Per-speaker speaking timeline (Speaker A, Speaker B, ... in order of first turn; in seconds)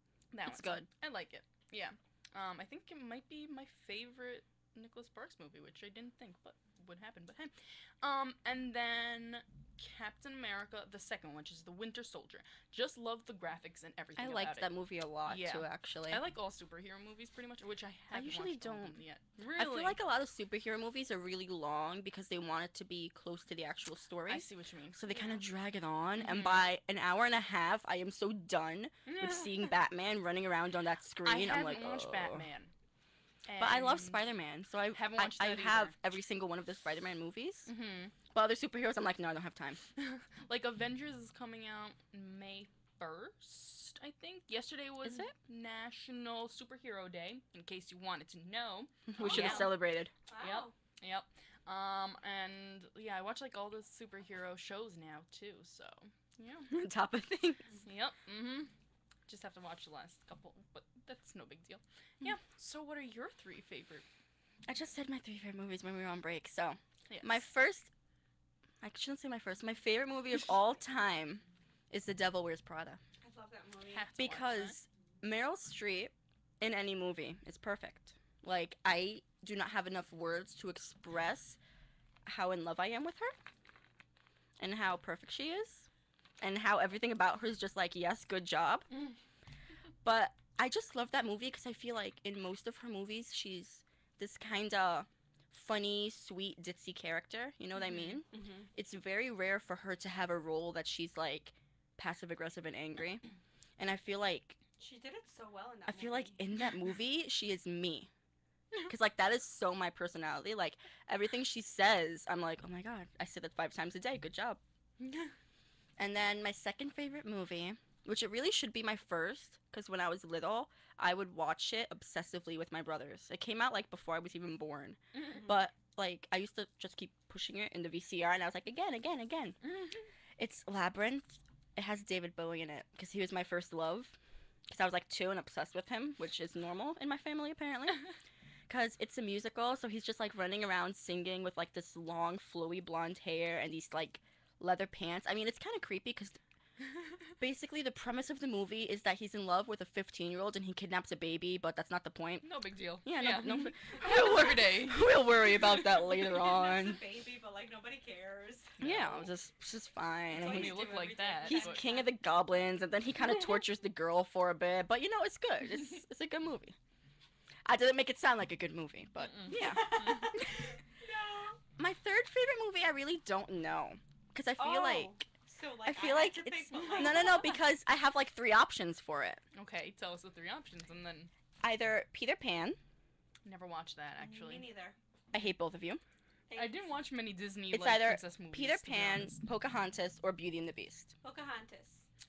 Speaker A: 0.3-20.0, 24.3-25.4, 26.2-26.7, 29.1-29.7, 31.2-32.7, 33.5-34.2, 34.9-35.9, 37.7-38.1, 40.0-49.7, 50.4-56.8, 57.8-58.7, 59.3-64.0, 67.1-67.4, 73.9-74.8, 97.8-98.2, 115.0-115.3, 152.4-156.1, 158.8-159.3, 160.3-161.8, 169.2-170.3, 176.7-177.2, 179.5-181.3, 183.4-184.7, 186.6-189.4
Speaker B: 0.4-0.9, 14.2-16.2, 18.1-19.0, 19.6-32.4, 33.6-37.7, 38.3-39.8, 45.0-45.3, 49.1-50.1, 56.7-57.7, 64.7-67.9, 68.8-73.0, 74.2-81.6, 82.2-83.3, 84.6-85.9, 86.4-88.9, 90.0-103.2, 103.8-104.6, 105.9-108.1, 108.9-114.6, 116.0-129.6, 130.4-134.2, 134.7-138.0, 138.7-146.4, 147.4-157.0, 158.8-160.8, 161.4-166.8, 167.7-170.7, 171.8-175.2, 175.9-179.4, 181.6-182.8, 185.3-186.0, 187.7-191.1
Speaker C: 49.2-49.8, 50.3-50.7, 73.2-74.1, 98.3-98.7, 104.8-106.4, 156.1-158.8, 160.3-162.1, 169.5-171.6, 174.6-177.6, 184.2-185.0, 186.5-186.9, 191.2-192.1